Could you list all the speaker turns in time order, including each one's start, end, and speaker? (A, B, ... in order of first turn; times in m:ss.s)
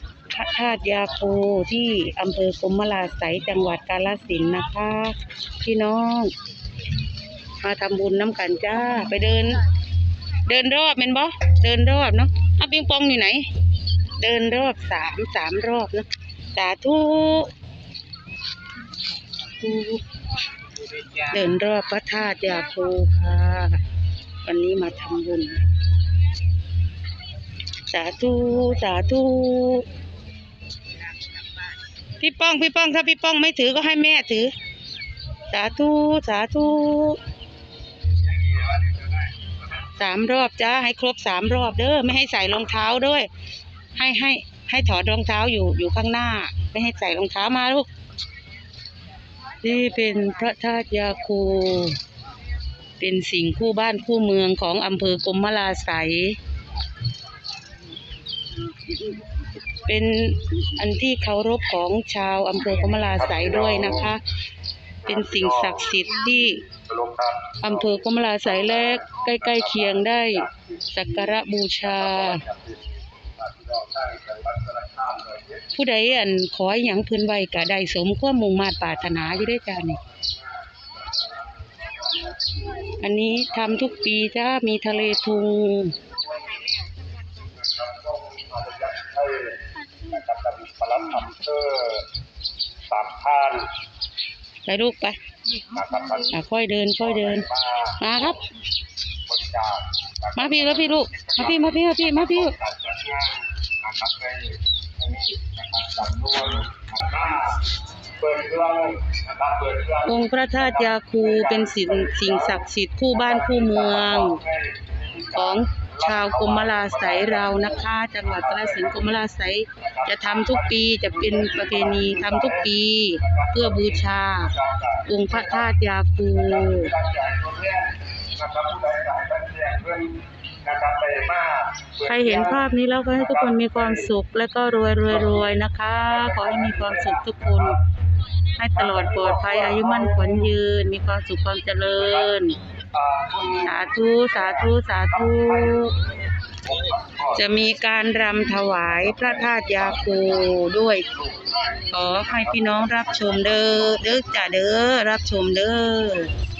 0:00.3-0:06.3 A
0:07.6-0:09.6 A
0:10.4-0:13.5 A
0:14.2-0:17.5 A
0:19.6-0:20.0 A
0:21.2-0:23.8 A
0:24.4-0:25.6 A
0:27.9-0:29.9 A
0:32.2-0:34.5 A
0:35.5-0:37.2 A
0:38.5-0:39.0 B
0:40.0-0:43.3 A
0:44.0-0:47.9 A
0:49.6-0:52.0 A
0:53.0-0:56.4 A
0:59.9-1:04.2 A
1:03.2-1:04.1 B
1:05.0-1:05.9 B
1:05.0-1:06.7 A
1:06.7-1:07.9 B
1:07.6-1:12.4 A
1:08.6-1:10.6 B
1:11.8-1:15.7 B
1:15.7-1:20.0 A
1:22.1-1:22.8 B
1:23.0-1:26.0 A
1:27.4-1:32.1 B
1:32.9-1:33.7 B
1:34.7-1:35.2 A
1:35.7-1:36.3 B
1:36.3-1:38.4 A
1:37.2-1:38.0 B
1:39.3-1:47.6 B
1:40.4-1:42.6 A
1:48.2-1:59.1 B
1:50.0-1:54.4 A
1:55.3-2:06.9 A
1:59.8-2:02.7 B
2:03.2-2:05.7 B
2:06.3-2:12.7 B
2:12.0-2:17.8 A
2:13.2-2:14.1 B
2:15.1-2:15.5 B
2:16.1-2:17.8 B
2:18.6-2:22.6 A
2:18.8-2:20.5 B
2:22.0-2:22.3 B
2:22.9-2:26.0 B
2:23.6-2:26.0 A
2:26.6-2:27.4 B
2:27.3-2:31.1 A
2:29.2-2:30.6 B
2:31.1-2:31.9 B
2:31.9-2:36.3 A
2:32.6-2:33.8 B